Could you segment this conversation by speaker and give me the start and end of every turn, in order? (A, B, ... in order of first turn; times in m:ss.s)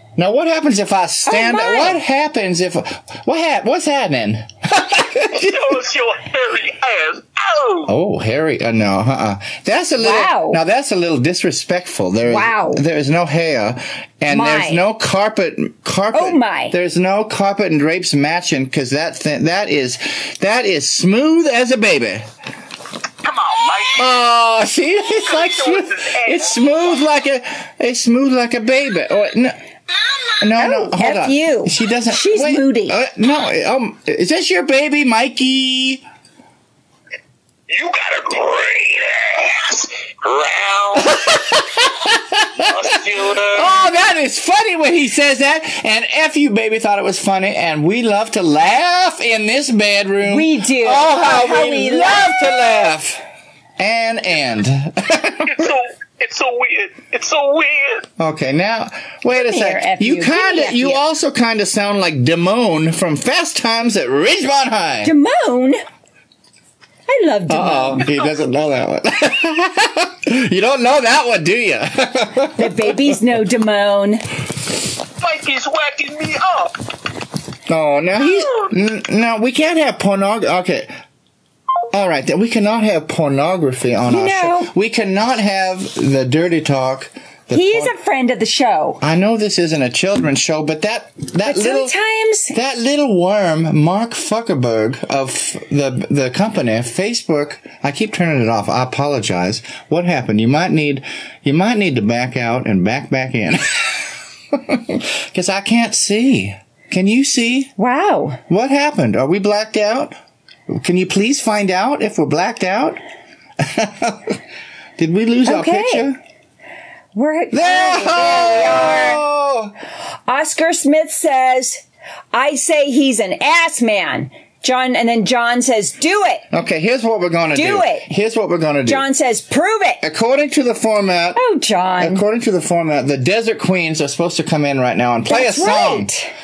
0:00.2-0:05.8 A
0:01.2-0:02.0 B
0:05.3-0:07.9 C
0:07.9-0:22.3 A
0:10.0-0:10.6 B
0:12.2-0:12.8 B
0:14.3-0:14.8 B
0:16.1-0:16.8 B
0:23.2-0:24.1 C
0:24.0-0:29.6 A
0:25.1-0:27.0 C
0:30.4-0:36.0 A
0:30.6-0:33.0 B
0:37.7-0:41.4 C
0:40.9-0:53.2 A
0:42.6-0:43.7 C
0:50.2-0:52.6 B
0:53.8-0:55.7 A
0:55.4-0:58.1 C
0:58.2-1:05.1 A
0:59.3-1:01.0 B
1:05.0-1:05.8 B
1:07.1-1:08.1 B
1:07.5-1:13.2 A
1:12.6-1:14.2 B
1:15.2-1:16.8 C
1:17.7-1:20.9 A
1:18.2-1:18.7 C
1:21.9-1:27.9 A
1:24.0-1:24.7 B
1:27.5-1:29.0 B
1:29.0-1:31.9 A
1:31.4-1:32.5 B
1:32.5-1:47.7 A
1:47.8-1:48.4 B
1:48.5-1:50.1 A
1:50.7-1:53.0 A
1:53.6-1:54.4 A
1:55.0-1:56.2 A
1:55.4-1:56.1 B
1:57.1-1:59.2 B
1:57.5-1:59.7 A
2:00.3-2:01.8 B
2:02.3-2:06.4 B
2:06.5-2:09.0 A
2:07.5-2:08.1 B
2:08.8-2:10.0 B
2:10.0-2:11.4 A
2:11.4-2:12.2 B
2:12.0-2:16.1 A
2:15.3-2:16.3 B